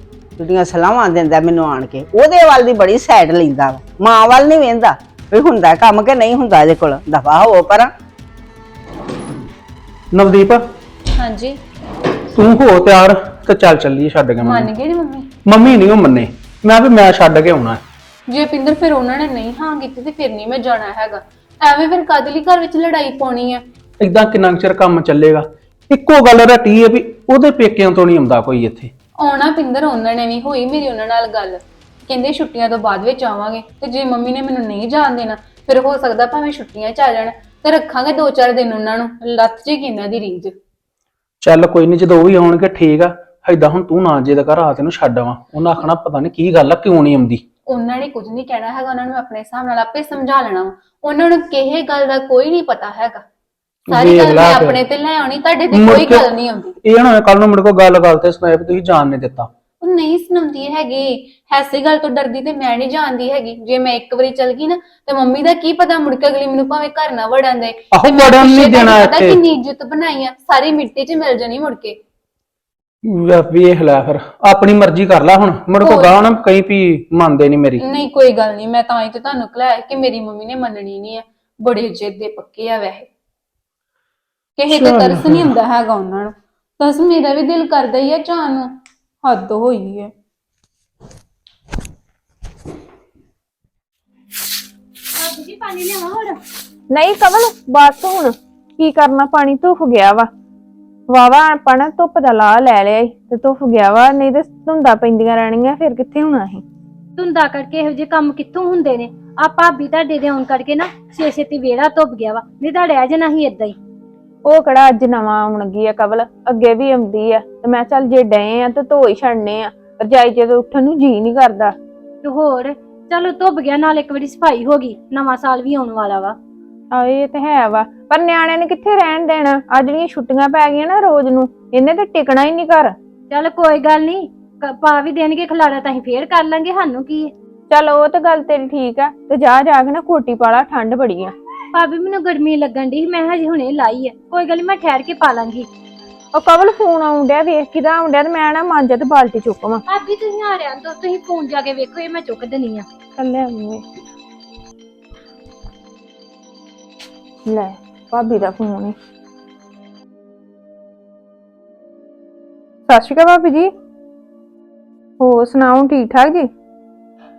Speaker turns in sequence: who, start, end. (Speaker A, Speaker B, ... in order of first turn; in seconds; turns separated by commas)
Speaker A: 0.4-7.9, Speaker B: 10.1-10.6, Speaker C: 11.2-11.6, Speaker B: 12.3-14.7, Speaker C: 14.4-15.3, Speaker B: 15.4-17.8, Speaker C: 18.3-23.6, Speaker B: 24.0-28.9, Speaker C: 29.2-40.5, Speaker B: 41.4-47.4, Speaker C: 47.6-53.2, Speaker B: 53.9-54.8, Speaker C: 53.9-56.7, Speaker B: 55.7-56.3, Speaker B: 56.8-59.5, Speaker C: 59.8-72.0, Speaker B: 67.9-69.4, Speaker B: 73.0-77.8, Speaker C: 75.8-76.3, Speaker C: 77.8-83.1, Speaker C: 84.6-88.7, Speaker B: 84.7-85.5, Speaker C: 89.2-90.1, Speaker D: 95.2-96.4, Speaker E: 96.9-100.3, Speaker E: 101.1-106.6, Speaker D: 107.2-113.8, Speaker E: 114.4-121.7, Speaker D: 122.2-126.3, Speaker E: 126.9-132.9, Speaker D: 133.3-137.3, Speaker E: 137.7-141.3, Speaker D: 141.7-145.7, Speaker E: 146.3-149.8, Speaker D: 149.9-152.8, Speaker E: 153.2-153.8, Speaker E: 157.4-158.9, Speaker E: 162.9-163.7, Speaker E: 165.2-166.5